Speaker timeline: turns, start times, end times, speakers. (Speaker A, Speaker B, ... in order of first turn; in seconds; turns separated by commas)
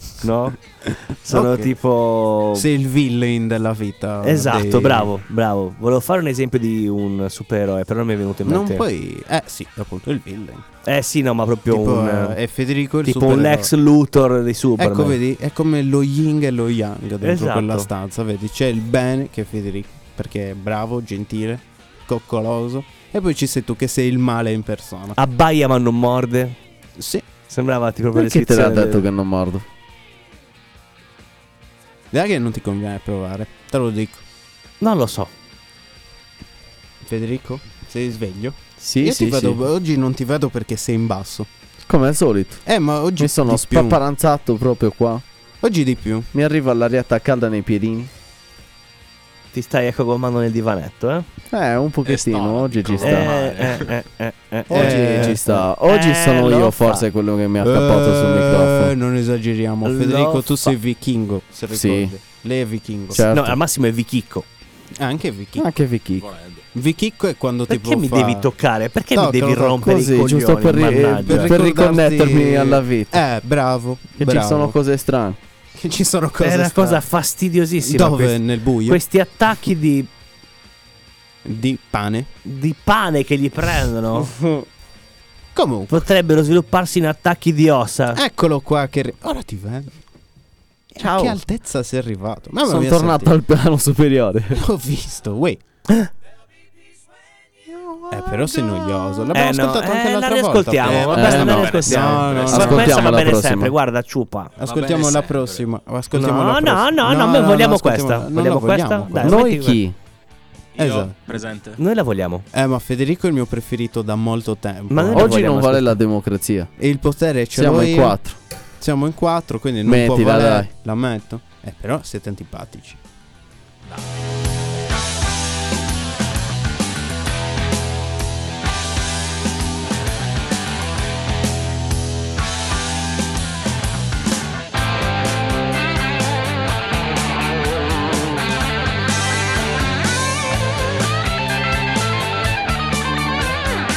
Speaker A: 0.2-2.7, Speaker B: 1.3-1.7, Speaker B: 2.6-5.1, Speaker A: 4.2-8.8, Speaker B: 8.4-10.7, Speaker A: 10.8-12.4, Speaker B: 11.7-13.7, Speaker A: 13.0-15.2, Speaker B: 14.8-25.2, Speaker A: 17.2-17.9, Speaker A: 25.2-26.6, Speaker B: 27.0-27.3, Speaker A: 27.5-29.1, Speaker C: 28.1-29.7, Speaker B: 32.1-34.2, Speaker A: 34.8-35.3, Speaker B: 37.0-41.5, Speaker C: 38.8-39.6, Speaker C: 41.8-42.6, Speaker B: 42.7-44.0, Speaker C: 43.2-45.2, Speaker B: 45.6-46.3, Speaker C: 46.3-48.1, Speaker A: 49.5-51.3, Speaker C: 51.5-53.4, Speaker D: 52.0-54.0, Speaker A: 53.0-57.1, Speaker C: 54.7-59.0, Speaker B: 54.7-55.6, Speaker B: 57.6-63.3, Speaker A: 59.9-60.8, Speaker C: 61.7-62.1, Speaker C: 63.1-63.6, Speaker A: 63.2-64.5, Speaker B: 65.0-65.7, Speaker C: 65.6-66.3, Speaker D: 66.2-66.7, Speaker B: 66.8-68.5, Speaker A: 67.7-71.5, Speaker B: 69.1-70.0, Speaker C: 69.8-73.2, Speaker B: 70.9-74.8, Speaker C: 74.2-75.4, Speaker B: 75.8-77.0, Speaker A: 76.4-80.1, Speaker B: 77.8-79.0, Speaker B: 81.5-82.3, Speaker A: 82.5-84.3, Speaker C: 84.1-84.7, Speaker B: 85.5-86.1, Speaker A: 85.9-88.2, Speaker B: 88.1-90.0, Speaker B: 91.0-93.3, Speaker C: 91.0-91.4, Speaker C: 92.7-94.6, Speaker B: 94.5-95.6, Speaker B: 98.1-103.0, Speaker C: 98.2-98.6, Speaker A: 99.3-104.5, Speaker D: 100.8-103.1, Speaker C: 101.1-101.7, Speaker C: 102.5-103.8, Speaker B: 104.6-109.5, Speaker D: 104.6-105.7, Speaker A: 106.1-109.8, Speaker C: 109.2-110.0, Speaker D: 110.8-111.8, Speaker B: 110.8-111.2, Speaker A: 111.8-112.5, Speaker B: 112.5-115.4, Speaker A: 114.9-116.0, Speaker C: 115.1-116.7, Speaker B: 116.8-118.2, Speaker C: 117.5-118.4, Speaker B: 118.8-123.0, Speaker C: 119.8-120.7